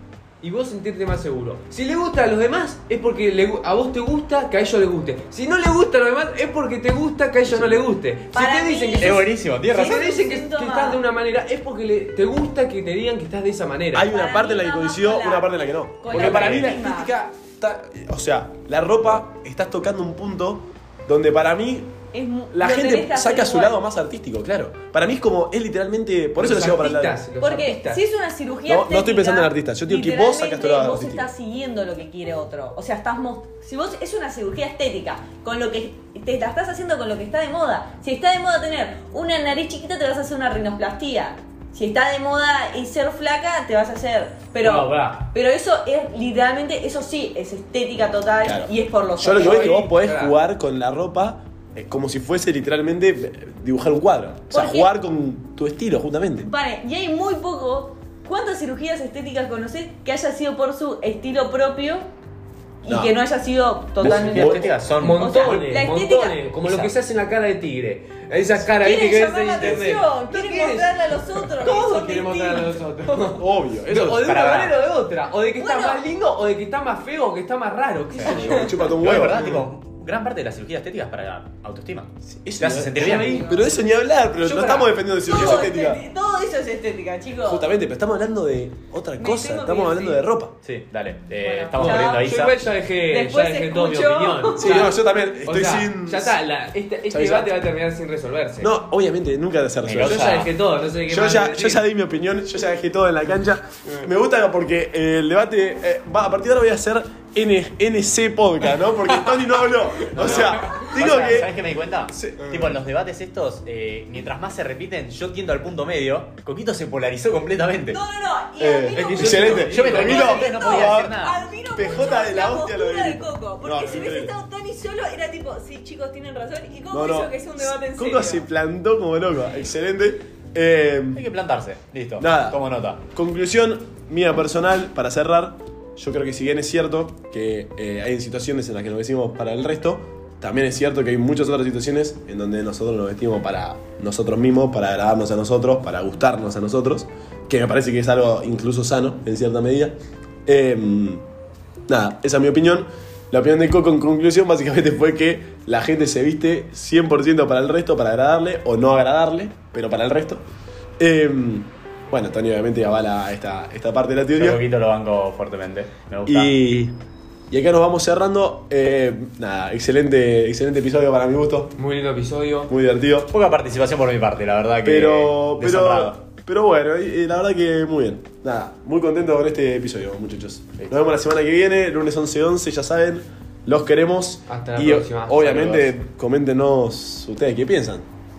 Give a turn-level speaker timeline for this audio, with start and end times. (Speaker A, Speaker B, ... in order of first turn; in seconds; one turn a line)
Speaker A: 0.4-14.1
Speaker B: 8.3-11.0
Speaker C: 9.0-10.1
Speaker D: 13.9-22.0
Speaker B: 14.1-17.1
Speaker A: 16.1-16.7
Speaker B: 22.1-23.8
Speaker D: 22.5-27.2
Speaker A: 26.4-28.0
Speaker B: 27.4-49.7
Speaker D: 28.6-31.3
Speaker A: 44.6-45.2
Speaker D: 48.4-56.5
Speaker A: 49.3-50.3
Speaker B: 54.5-54.9
Speaker B: 56.4-62.1
Speaker B: 62.8-66.4
Speaker D: 62.9-63.1
Speaker D: 64.0-64.7
Speaker C: 64.0-65.5
Speaker A: 64.8-79.4
Speaker C: 66.6-66.9
Speaker B: 68.8-73.3
Speaker D: 73.4-74.3
Speaker C: 74.1-74.7
Speaker B: 75.6-76.0
Speaker D: 78.2-79.6
Speaker B: 78.3-78.9
Speaker C: 78.9-83.4
Speaker D: 82.4-86.0
Speaker A: 82.9-83.7
Speaker B: 83.0-83.7
Speaker A: 84.4-85.0
Speaker B: 85.2-87.7
Speaker D: 87.4-90.5
Speaker B: 89.2-90.2
Speaker C: 90.6-92.6
Speaker B: 91.4-92.4
Speaker A: 91.8-98.7
Speaker B: 93.1-94.9
Speaker D: 94.5-96.4
Speaker D: 97.1-97.5
Speaker D: 98.6-100.3
Speaker C: 99.8-100.5
Speaker A: 100.0-101.8
Speaker D: 101.1-111.5
Speaker A: 110.0-110.8
Speaker C: 110.2-118.0
Speaker D: 112.1-112.6
Speaker B: 117.9-128.4
Speaker D: 118.6-121.1
Speaker A: 118.9-120.3
Speaker C: 119.5-121.4
Speaker D: 121.7-124.3
Speaker D: 126.9-131.2
Speaker C: 131.1-133.0
Speaker D: 132.2-149.9
Speaker D: 150.4-151.2
Speaker D: 151.9-160.4
Speaker D: 161.0-164.6
Speaker C: 164.3-166.5
Speaker D: 166.3-166.9
Speaker D: 167.5-171.7
Speaker A: 171.8-172.7
Speaker D: 172.7-173.3
Speaker C: 173.3-176.2
Speaker D: 174.8-188.1
Speaker A: 184.5-185.9